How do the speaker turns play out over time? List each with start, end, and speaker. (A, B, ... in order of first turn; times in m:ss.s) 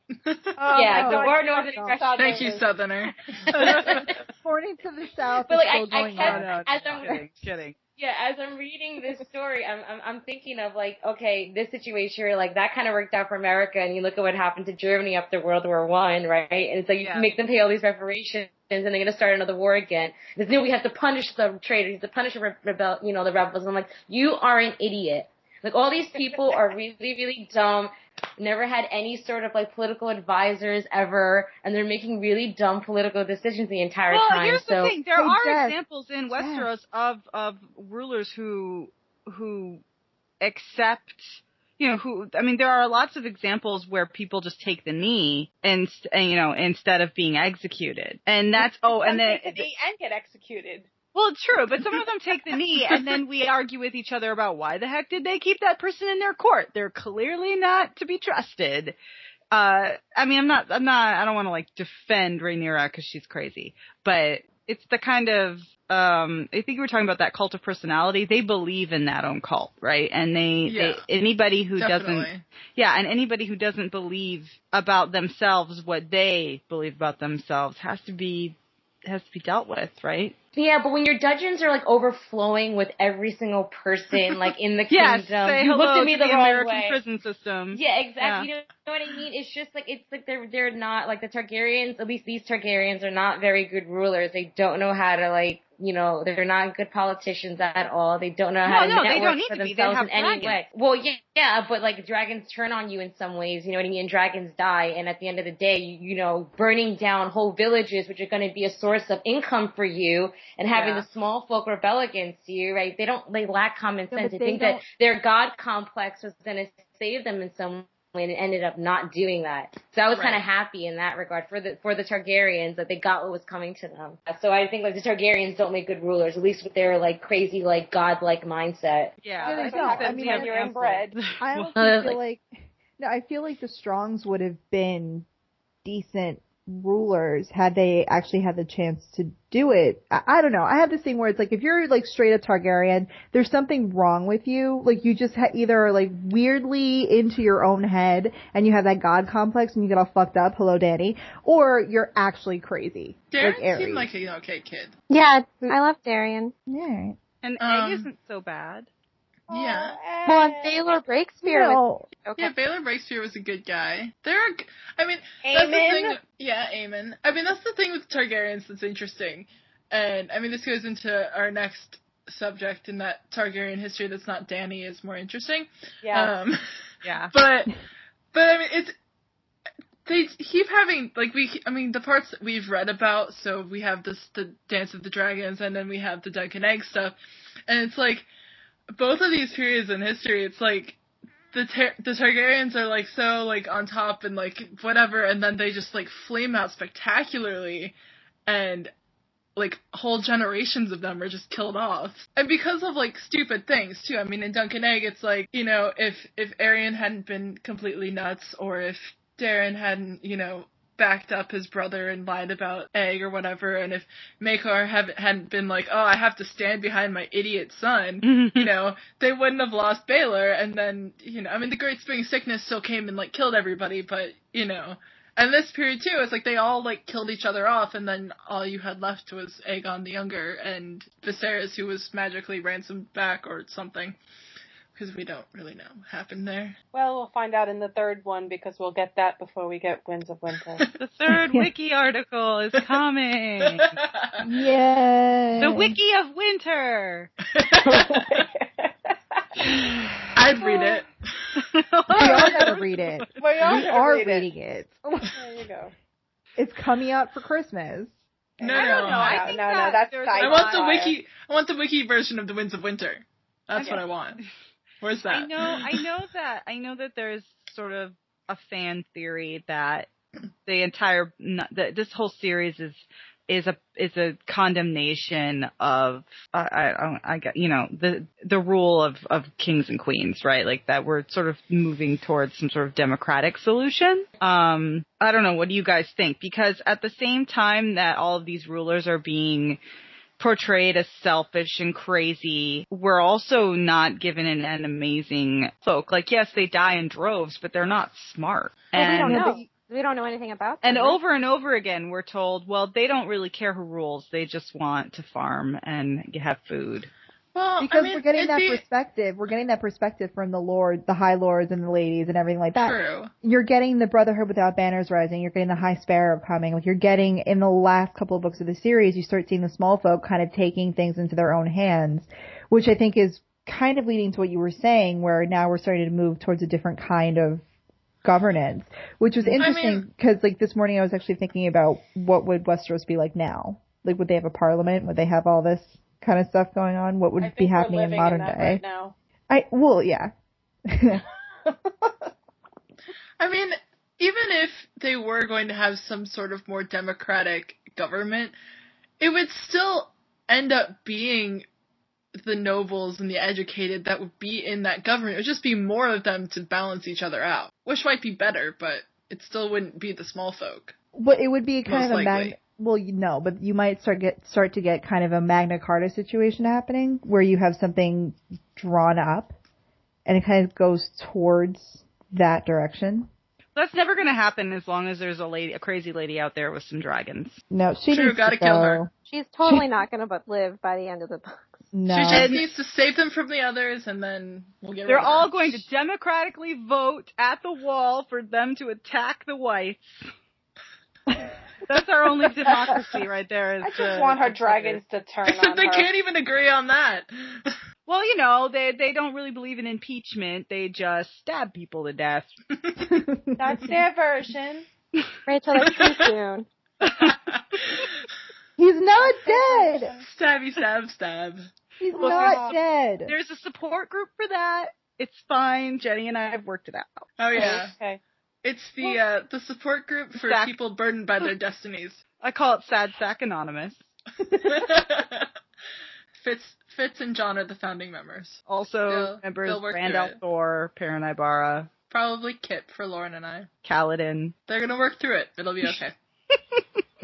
0:00.2-0:00.5 A
0:00.6-0:02.7 B
0:00.7-0:02.5 C
0:01.0-0:01.3 D
0:02.2-0:04.0 A
0:03.5-0:04.2 C
0:03.8-0:06.6 D
0:05.5-0:07.2 C
0:06.2-0:07.8 E
0:08.0-0:35.0 C
0:17.0-0:17.3 E
0:34.1-0:39.8 E
0:35.2-0:35.8 D
0:36.3-0:36.7 D
0:40.4-0:49.7 E
0:48.6-0:50.9 B
0:51.2-0:59.0 E
0:59.5-1:20.4 E
1:10.7-1:11.0 A
1:11.8-1:12.4 A
1:20.6-1:27.0 C
1:24.9-1:28.5 E
1:27.7-2:09.2 C
1:38.6-1:40.6 E
1:50.7-1:51.0 E
1:54.1-1:54.8 D
2:00.2-2:00.4 E
2:09.2-2:11.7 E
2:09.4-2:11.2 B
2:09.4-2:10.8 D
2:11.4-2:12.5 D
2:11.8-2:12.2 C
2:13.0-2:15.3 D
2:15.8-2:34.1 D
2:33.3-2:35.0 A
2:35.1-2:36.5 F
2:36.7-2:37.2 D
2:37.4-2:38.9 E
2:37.6-2:38.1 A
2:39.5-2:40.0 A
2:39.5-2:40.8 B
2:40.3-2:42.5 F
2:41.4-2:42.1 D
2:42.4-2:56.6 A
2:45.4-2:46.2 B
2:56.0-2:56.4 B
2:57.0-2:57.3 E
2:57.3-2:57.7 A
2:58.3-2:58.9 A
3:00.1-3:07.2 A
3:07.7-3:08.3 A
3:08.9-3:11.0 A
3:11.5-3:18.0 A
3:18.5-3:18.9 A
3:19.6-3:54.2 A
3:38.2-3:38.7 E
3:55.0-3:56.8 A
3:56.9-4:00.9 B
4:01.0-4:04.0 E
4:03.7-4:04.4 A
4:04.4-4:06.0 D
4:05.6-4:07.3 E
4:07.5-4:08.5 A
4:07.8-4:09.7 B
4:09.6-4:11.6 A
4:11.6-4:13.3 E
4:12.1-4:15.4 D
4:13.4-4:14.5 B
4:15.3-4:15.9 B
4:16.6-4:18.1 D
4:18.6-4:21.2 B
4:18.6-4:19.5 A
4:18.7-4:21.0 E
4:20.4-4:24.4 A
4:23.8-4:24.5 E
4:25.0-4:26.1 A
4:25.3-4:30.1 E
4:30.7-4:49.8 E
4:50.4-4:59.6 E
4:58.9-5:01.2 F
4:59.2-4:59.6 D
5:00.8-5:07.1 E
5:07.5-5:08.8 A
5:07.8-5:27.6 D
5:12.8-5:13.3 A
5:28.2-5:38.8 D
5:29.6-5:30.0 A
5:37.4-5:39.1 B
5:39.5-5:40.3 D
5:40.9-5:41.2 D
5:41.7-5:42.1 B
5:43.4-5:48.6 A
5:49.2-5:51.7 A
5:52.4-6:01.0 A
6:01.1-6:09.5 D
6:01.9-6:02.6 A
6:10.3-6:13.3 D
6:13.8-6:17.6 E
6:17.7-6:19.1 D
6:18.1-6:19.0 A
6:19.3-6:21.9 F
6:21.9-6:22.6 D
6:22.1-6:25.8 A
6:22.3-6:22.6 E
6:25.1-6:30.3 E
6:31.9-6:35.0 E
6:33.8-6:36.1 B
6:35.5-6:37.8 A
6:38.1-6:42.5 E
6:43.0-6:43.9 D
6:43.6-6:44.9 B
6:45.5-6:46.7 F
6:45.8-6:46.2 A
6:47.0-6:47.4 E
6:47.2-6:48.1 A
6:48.8-6:50.1 D
6:49.2-6:50.3 B
6:50.2-6:51.7 A
6:52.0-6:53.4 D
6:52.1-6:57.6 E
6:52.2-6:52.8 B
6:57.4-6:57.9 A
6:57.5-6:58.2 B
6:58.6-7:02.2 A
7:00.4-7:00.7 E
7:02.4-7:04.0 E
7:04.6-7:05.5 A
7:06.4-7:10.4 A
7:08.7-7:11.9 E
7:12.1-7:13.7 A
7:13.8-7:14.6 E
7:14.7-7:16.2 A